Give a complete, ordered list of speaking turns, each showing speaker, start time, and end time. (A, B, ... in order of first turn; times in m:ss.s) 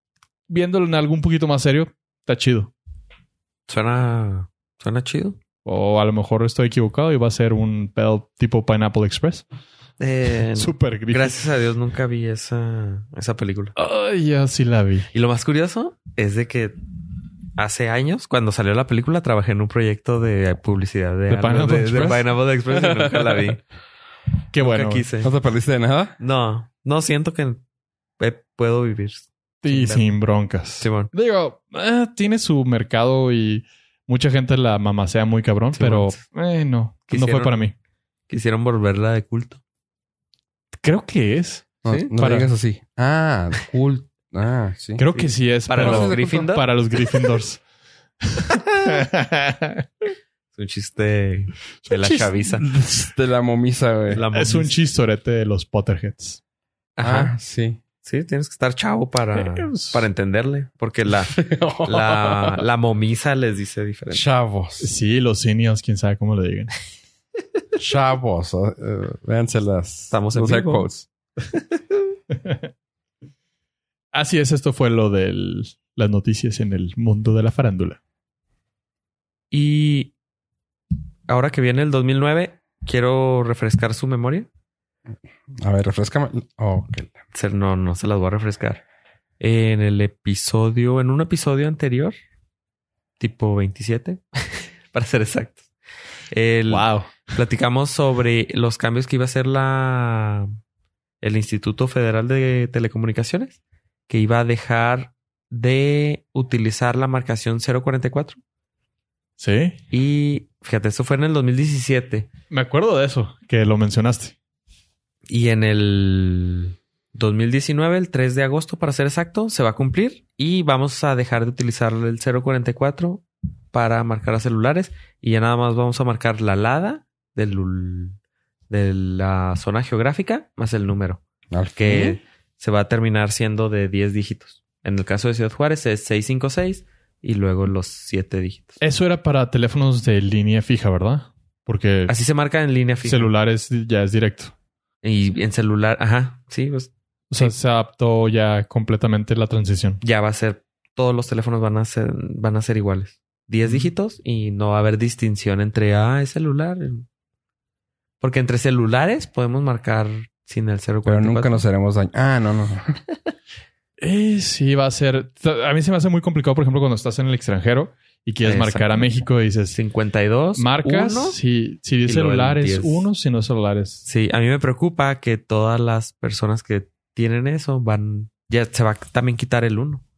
0:00.5-0:02.7 A
0:03.7-0:05.4 B
0:05.6-0:09.4 A
0:10.0-0:13.8 B
0:10.6-0:11.4 A
0:13.8-0:15.1 A
0:15.1-0:16.8 B
0:17.6-0:23.6 B
0:21.3-0:22.3 A
0:24.5-0:25.0 A
0:24.6-0:25.3 B
0:25.2-0:26.2 C
0:26.2-0:27.6 B
0:28.2-0:30.1 B
0:29.6-0:37.7 A
0:30.8-0:31.1 B
0:35.7-0:36.2 B
0:37.1-0:37.7 B
0:38.3-0:39.6 B
0:40.8-0:42.5 A
0:41.8-0:45.0 C
0:45.0-0:47.6 A
0:45.1-0:46.7 B
0:45.7-0:46.5 C
0:48.2-0:50.1 A
0:50.5-0:52.6 B
0:51.8-0:52.3 A
0:52.6-0:54.2 C
0:54.1-0:54.7 B
0:54.3-0:56.4 A
0:57.0-0:57.3 B
0:57.0-0:57.8 C
0:58.0-1:04.2 B
0:59.3-1:00.0 A
1:01.3-1:02.6 C
1:04.1-1:04.9 C
1:04.8-1:06.7 A
1:07.8-1:11.1 C
1:10.1-1:10.9 B
1:12.3-1:12.7 A
1:14.1-1:18.0 A
1:19.5-1:20.1 B
1:21.3-1:24.5 B
1:25.6-1:27.1 C
1:27.3-1:28.8 B
1:29.4-1:32.2 B
1:33.2-1:35.7 B
1:36.3-1:40.5 B
1:36.7-1:37.3 A
1:41.2-1:48.4 B
1:49.4-1:49.8 A
1:49.9-1:52.3 B
1:52.5-1:54.4 A
1:55.3-2:08.2 B
2:08.7-2:11.2 B
2:11.5-2:12.2 C
2:11.8-2:18.8 B
2:18.8-2:22.1 A
2:22.1-2:23.3 B
2:23.0-2:24.5 A
2:25.0-2:27.5 B
2:27.3-2:30.0 A
2:30.0-2:37.1 B
2:38.2-2:41.6 B
2:41.0-2:43.0 C
2:44.0-2:49.8 A
2:48.4-2:49.1 B
2:49.7-2:51.4 B
2:50.6-2:54.0 A
2:52.0-2:53.1 B
2:54.0-3:00.0 B